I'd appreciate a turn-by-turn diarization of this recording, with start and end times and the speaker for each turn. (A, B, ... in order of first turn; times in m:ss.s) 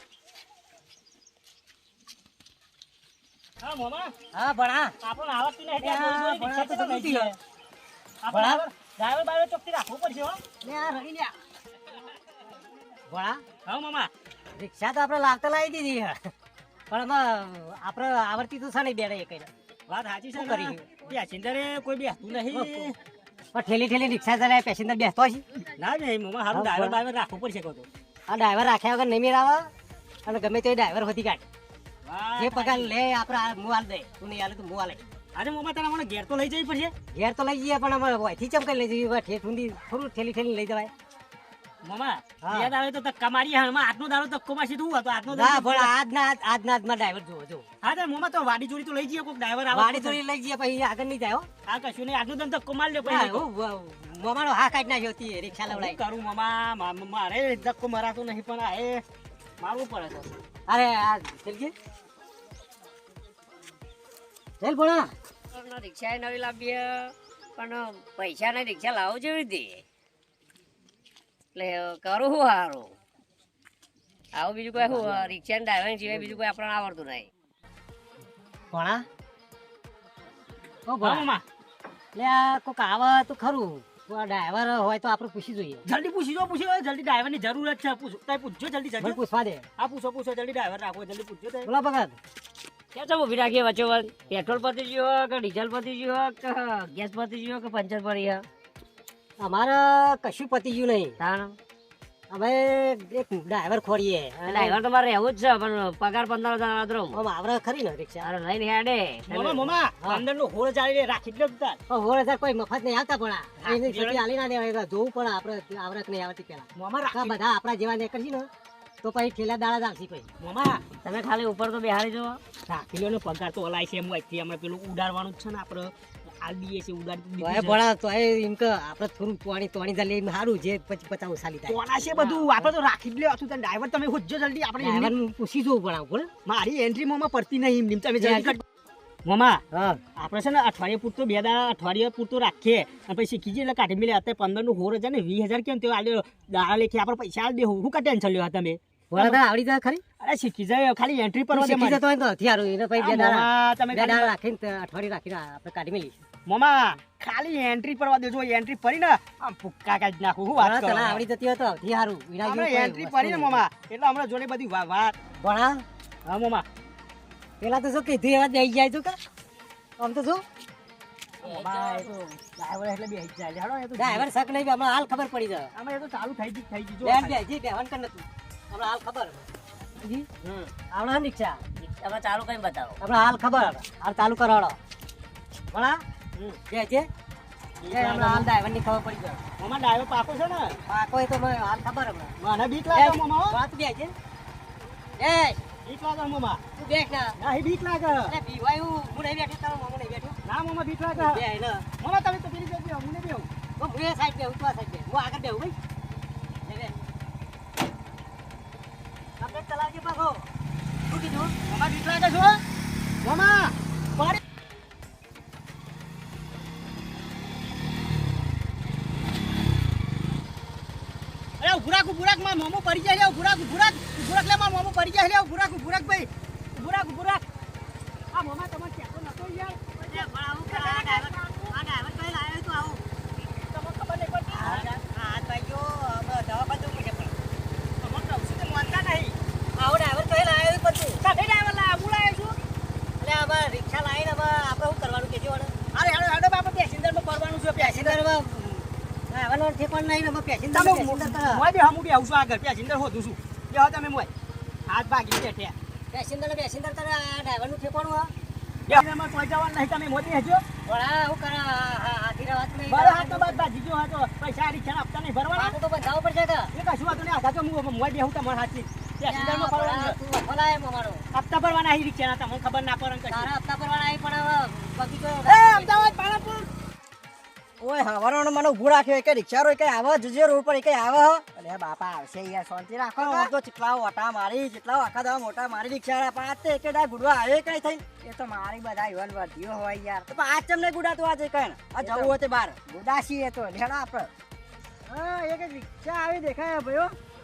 0:03.6-0:04.1 A
0:04.3-0:04.9 B
0:05.0-0:07.4 A
0:05.8-0:07.3 B
0:08.2-0:10.4 A
0:08.3-0:08.6 B
0:10.6-0:11.4 B
0:13.1-0:13.4 B
0:13.7-0:14.1 A
0:14.6-0:16.3 B
0:16.9-0:19.5 B
0:19.9-0:23.0 A
0:20.4-0:20.8 B
0:22.5-0:22.9 B
0:23.5-0:25.4 B
0:25.8-0:27.9 A
0:26.5-0:27.0 B
0:28.3-0:29.7 B
0:30.3-0:31.5 B
0:32.0-0:32.9 A
0:32.4-0:35.0 B
0:35.4-0:36.9 A
0:37.1-0:40.9 B
0:41.8-0:46.0 A
0:42.4-0:42.7 B
0:45.3-0:47.7 B
0:47.8-0:50.2 A
0:49.7-0:51.5 B
0:51.7-0:53.5 A
0:53.0-0:56.0 B
0:55.7-0:59.0 A
0:59.6-1:00.3 A
1:00.7-1:01.7 B
1:04.6-1:05.1 B
1:05.5-1:09.8 C
1:11.6-1:12.9 C
1:14.4-1:17.3 C
1:14.8-1:15.3 B
1:18.7-1:19.1 B
1:20.9-1:21.3 B
1:21.0-1:21.4 A
1:22.2-1:25.8 B
1:25.9-1:29.2 A
1:29.0-1:29.7 B
1:29.8-1:31.7 A
1:31.6-1:32.2 B
1:32.9-1:38.4 C
1:39.4-1:41.2 B
1:41.2-1:41.6 C
1:42.3-1:44.8 B
1:44.4-1:47.2 C
1:47.1-1:48.3 B
1:48.2-1:49.7 C
1:49.3-1:51.8 A
1:51.9-1:58.5 B
1:53.6-1:54.2 A
1:56.8-1:57.4 A
1:59.0-2:00.3 B
2:00.4-2:00.9 A
2:01.0-2:02.4 C
2:02.7-2:07.8 A
2:07.4-2:12.7 B
2:11.7-2:15.2 A
2:14.8-2:16.3 B
2:16.5-2:18.6 A
2:18.2-2:18.6 B
2:19.2-2:19.6 A
2:19.7-2:20.0 B
2:20.2-2:29.4 A
2:29.1-2:30.0 B
2:30.2-2:32.0 A
2:31.5-2:36.2 B
2:33.0-2:34.3 A
2:36.5-2:41.2 A
2:40.5-2:43.6 B
2:42.4-2:45.2 A
2:45.4-2:45.8 B
2:46.3-2:46.7 A
2:47.6-2:49.2 B
2:50.0-2:50.4 B
2:51.4-2:54.3 A
2:54.0-2:55.7 B
2:55.8-2:57.4 A
2:57.0-2:59.5 B
3:00.0-3:00.3 B
3:00.4-3:00.7 A
3:00.9-3:01.6 B
3:01.8-3:03.0 C
3:03.0-3:04.8 B
3:05.7-3:06.0 B
3:06.7-3:07.1 B
3:07.8-3:08.5 A
3:07.9-3:09.4 B
3:09.6-3:10.8 A
3:10.9-3:12.4 B
3:12.4-3:13.6 A
3:12.9-3:14.1 B
3:15.2-3:15.6 B
3:15.8-3:16.6 A
3:16.8-3:17.4 B
3:17.4-3:18.3 A
3:18.3-3:20.4 B
3:20.4-3:21.4 A
3:21.2-3:21.8 B
3:22.0-3:23.5 A
3:23.8-3:25.8 B
3:26.6-3:26.9 B
3:29.4-3:30.5 B
3:31.1-3:31.5 B
3:31.7-3:32.6 A
3:33.2-3:33.8 A
3:41.6-3:47.4 A
3:48.3-3:51.8 A
3:50.1-3:53.0 B
3:53.7-3:55.0 A
3:54.5-3:57.4 B
3:58.0-3:59.4 A
3:59.8-4:01.2 B
4:01.2-4:02.6 A
4:03.2-4:05.7 B
4:05.9-4:08.2 A
4:07.8-4:11.6 B
4:10.7-4:14.3 A
4:14.9-4:15.8 A
4:16.1-4:18.3 B
4:18.9-4:20.6 A
4:20.9-4:23.7 B
4:22.9-4:25.8 A
4:25.6-4:26.7 B
4:26.7-4:30.2 A
4:29.3-4:31.2 B
4:31.3-4:33.5 A
4:33.3-4:36.2 B
4:35.5-4:36.7 A
4:37.8-4:41.5 D
4:41.6-4:43.4 A
4:43.2-4:54.3 D
4:52.0-4:52.3 B
4:55.1-4:57.2 D